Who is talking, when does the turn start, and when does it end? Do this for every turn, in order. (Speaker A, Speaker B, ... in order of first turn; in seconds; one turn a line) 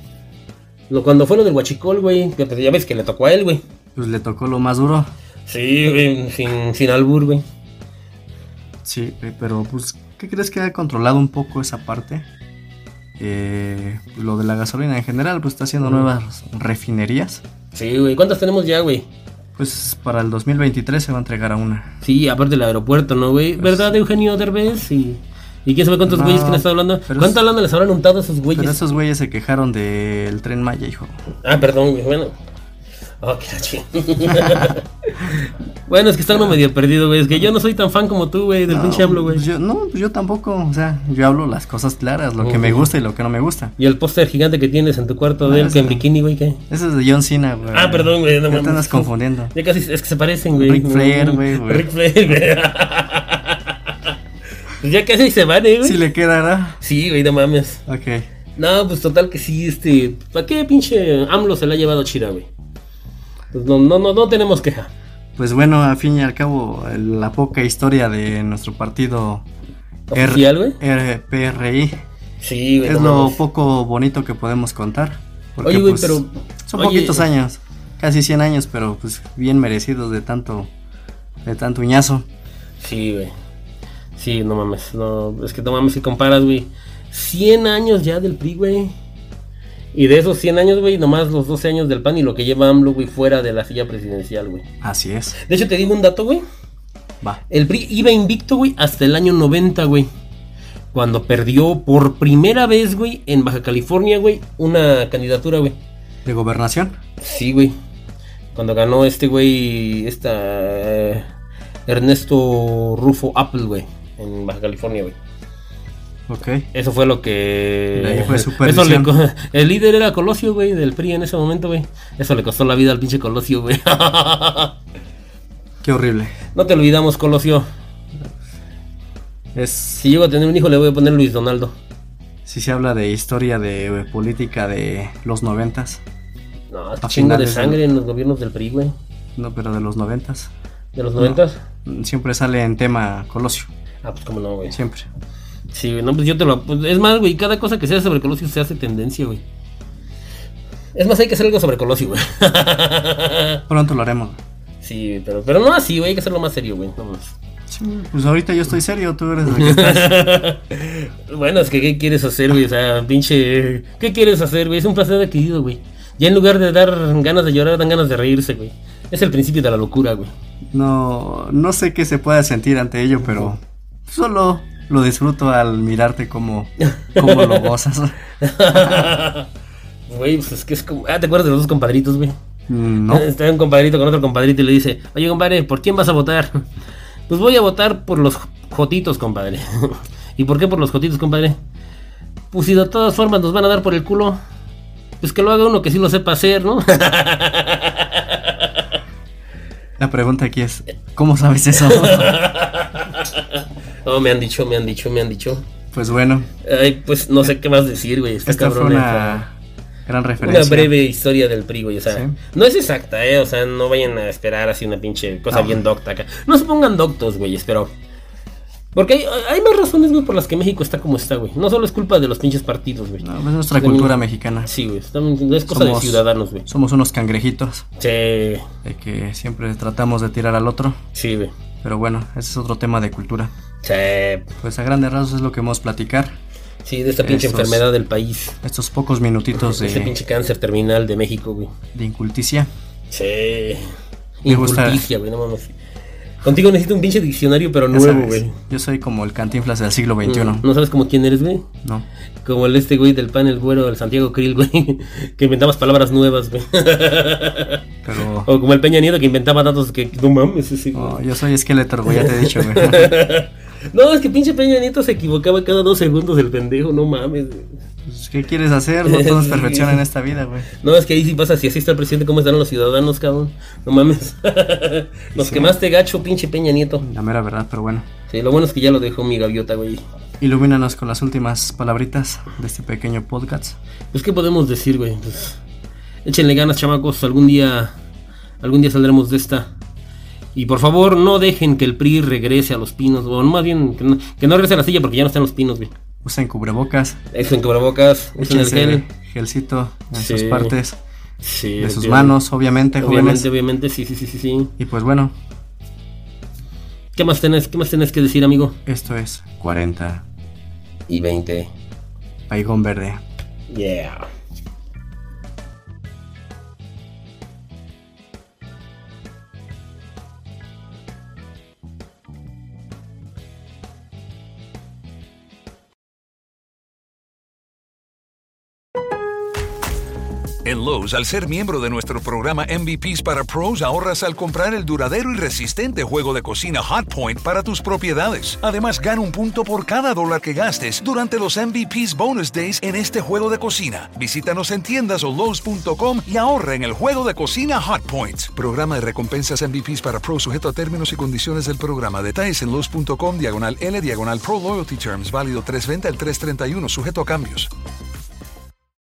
Speaker A: 0.9-3.6
Speaker B: 4.0-5.1
Speaker A: 5.5-7.4
Speaker B: 8.8-12.3
Speaker B: 13.2-17.4
Speaker A: 17.7-19.1
Speaker B: 19.6-21.9
Speaker A: 22.0-28.8
Speaker B: 23.6-23.9
Speaker B: 26.1-27.4
Speaker B: 28.5-31.2
Speaker A: 31.4-32.3
Speaker A: 33.2-39.4
Speaker B: 34.4-34.7
Speaker B: 38.7-43.7
Speaker A: 42.4-42.9
Speaker A: 43.8-46.6
Speaker B: 45.4-46.0
Speaker B: 46.7-49.5
Speaker A: 47.7-53.8
Speaker B: 50.5-51.9
Speaker A: 54.8-56.0
Speaker B: 55.8-56.8
Speaker A: 56.8-57.8
Speaker B: 57.9-58.3
Speaker A: 58.5-62.5
Speaker A: 63.5-64.9
Speaker B: 65.4-69.4
Speaker A: 70.1-70.8
Speaker B: 70.1-72.0
Speaker A: 72.4-73.4
Speaker B: 72.8-80.7
Speaker A: 75.6-77.2
Speaker B: 81.4-82.2
Speaker A: 82.8-83.3
Speaker A: 84.2-88.9
Speaker A: 89.9-94.6
Speaker B: 94.8-95.4
Speaker A: 95.4-96.4
Speaker A: 97.5-100.1
Speaker A: 100.9-105.8
Speaker B: 106.2-107.0
Speaker A: 107.2-107.7
Speaker A: 108.5-111.2
Speaker A: 111.9-115.1
Speaker B: 116.3-116.7
Speaker A: 116.7-124.7
Speaker B: 117.9-119.1
Speaker B: 125.8-126.3
Speaker A: 126.5-127.7
Speaker B: 129.5-130.0
Speaker A: 130.0-131.7
Speaker B: 132.4-136.0
Speaker A: 136.7-138.9
Speaker B: 137.0-137.8
Speaker B: 139.4-140.5
Speaker A: 140.9-141.6
Speaker B: 141.2-143.7
Speaker A: 144.0-144.8
Speaker B: 144.7-145.1
Speaker A: 145.7-149.4
Speaker A: 150.9-153.6
Speaker B: 153.7-154.4
Speaker A: 154.8-157.3
Speaker B: 157.7-160.1
Speaker A: 159.5-170.3
Speaker B: 170.7-178.2
Speaker A: 177.1-177.7
Speaker A: 178.4-179.5
Speaker B: 178.7-179.1
Speaker A: 180.1-182.3
Speaker B: 182.7-183.3
Speaker A: 183.1-186.7
Speaker A: 187.3-191.6
Speaker A: 192.5-194.4
Speaker A: 195.2-198.7
Speaker B: 200.0-202.4
Speaker A: 201.8-205.6
Speaker B: 205.9-206.5
Speaker A: 206.6-209.4
Speaker B: 208.4-209.5
Speaker B: 210.1-210.9
Speaker A: 210.4-217.9
Speaker B: 215.5-215.8
Speaker A: 218.9-224.1
Speaker B: 223.2-224.7
Speaker A: 224.7-226.7
Speaker B: 225.7-227.8
Speaker A: 228.0-228.6
Speaker B: 228.8-231.0
Speaker A: 231.1-231.5
Speaker B: 231.8-233.5
Speaker A: 233.8-234.5
Speaker B: 234.6-236.3
Speaker A: 236.8-238.6
Speaker B: 237.2-237.8
Speaker B: 238.6-240.1
Speaker A: 239.6-241.7
Speaker B: 241.9-242.7
Speaker A: 243.1-243.9
Speaker A: 244.4-245.7
Speaker B: 244.4-245.0
Speaker A: 246.4-248.5
Speaker B: 247.9-250.6
Speaker A: 250.2-251.7
Speaker A: 252.4-257.8
Speaker B: 258.0-258.5
Speaker A: 258.4-261.2
Speaker B: 260.9-263.1
Speaker A: 262.1-267.7
Speaker B: 268.1-270.7
Speaker A: 269.0-270.0
Speaker A: 270.8-277.0
Speaker B: 275.3-275.8
Speaker B: 277.0-278.1
Speaker A: 278.3-280.0
Speaker B: 280.4-283.8
Speaker A: 284.1-285.6
Speaker A: 286.2-287.9
Speaker A: 288.6-289.7
Speaker A: 290.5-295.9
Speaker B: 296.2-297.2
Speaker A: 297.3-299.0
Speaker B: 298.4-301.0
Speaker A: 300.1-300.8
Speaker A: 301.4-302.3
Speaker B: 301.8-303.5
Speaker A: 303.0-304.7
Speaker B: 304.8-305.3
Speaker A: 307.1-308.8
Speaker B: 308.9-310.2
Speaker A: 311.1-311.7
Speaker B: 312.5-313.2
Speaker A: 313.7-314.3
Speaker C: 330.6-357.7